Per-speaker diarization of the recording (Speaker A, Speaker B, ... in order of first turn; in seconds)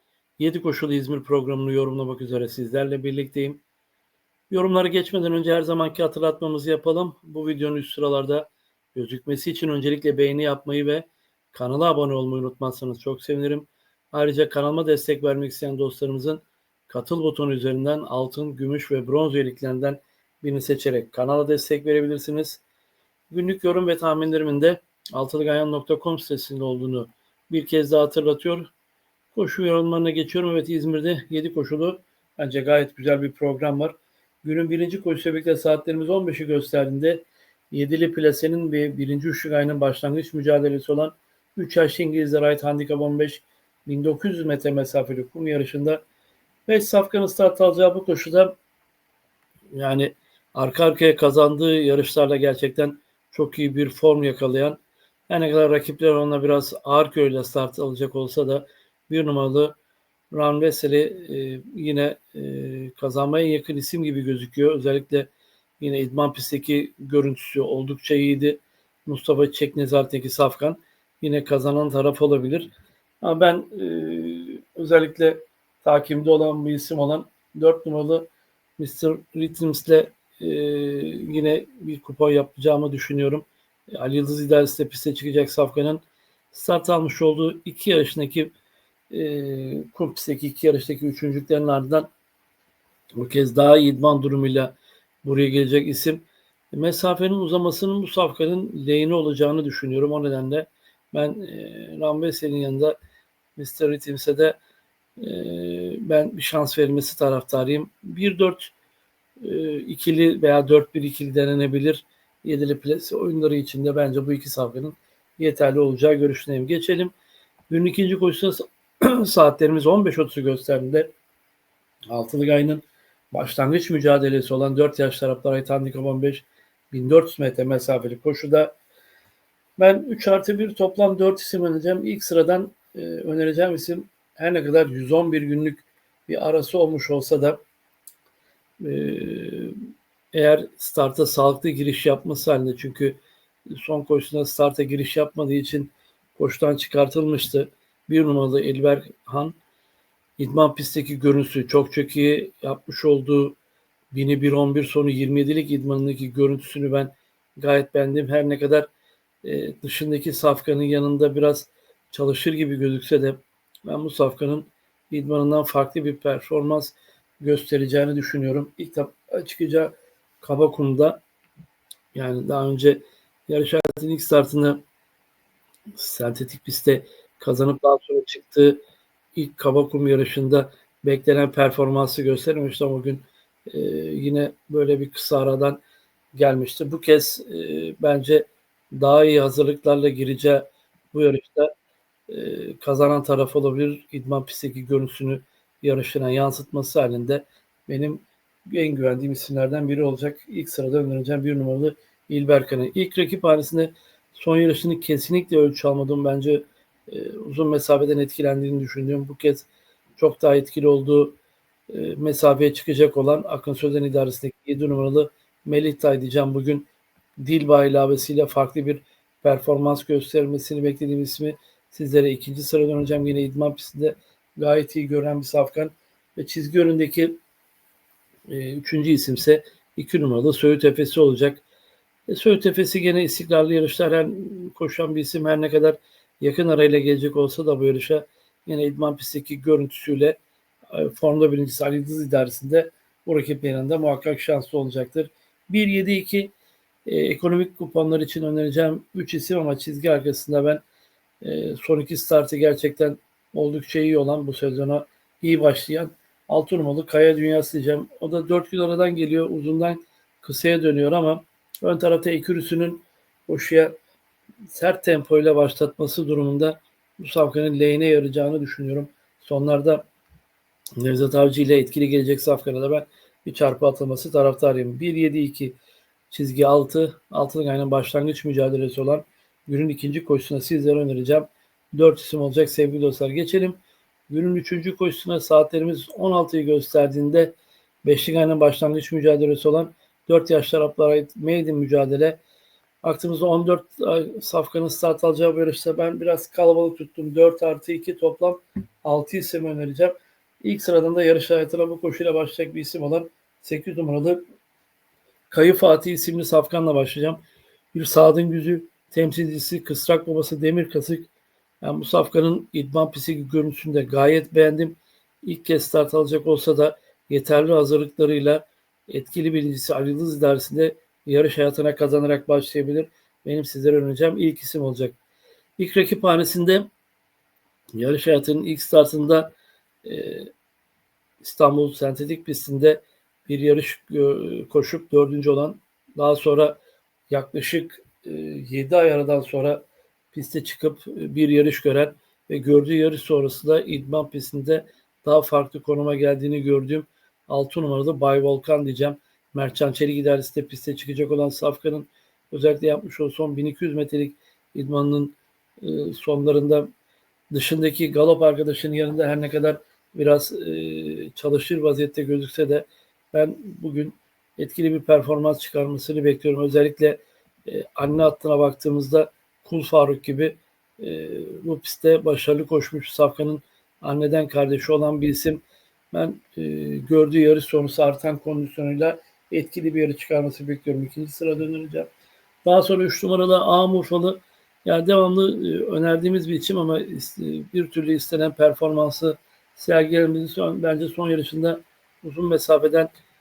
Speaker A: 0.4-3.6, 4.5-22.6, 23.3-28.7, 29.3-46.0, 46.7-48.5, 49.7-54.8, 55.3-59.8, 60.3-88.5, 89.1-92.1, 93.2-103.0, 103.6-104.6, 105.2-108.7, 109.4-117.1, 117.7-121.1, 122.1-128.7, 129.8-137.6, 138.8-139.8, 140.3-143.2, 143.7-149.6, 150.4-153.6, 154.1-158.9, 159.4-171.2, 172.1-174.8, 176.0-178.8, 179.3-185.8, 186.3-191.7, 192.3-211.4, 211.9-216.9, 217.4-227.4, 228.5-231.6, 232.3-240.4, 240.9-246.5, 247.1-250.8, 251.4-263.9, 264.7-270.1, 271.0-275.8, 276.3-292.4, 293.0-304.4, 305.5-307.4, 307.9-311.3, 311.8-325.2, 325.8-326.9, 327.9-330.5, 331.4-356.9, 357.5-382.1, 382.6-393.1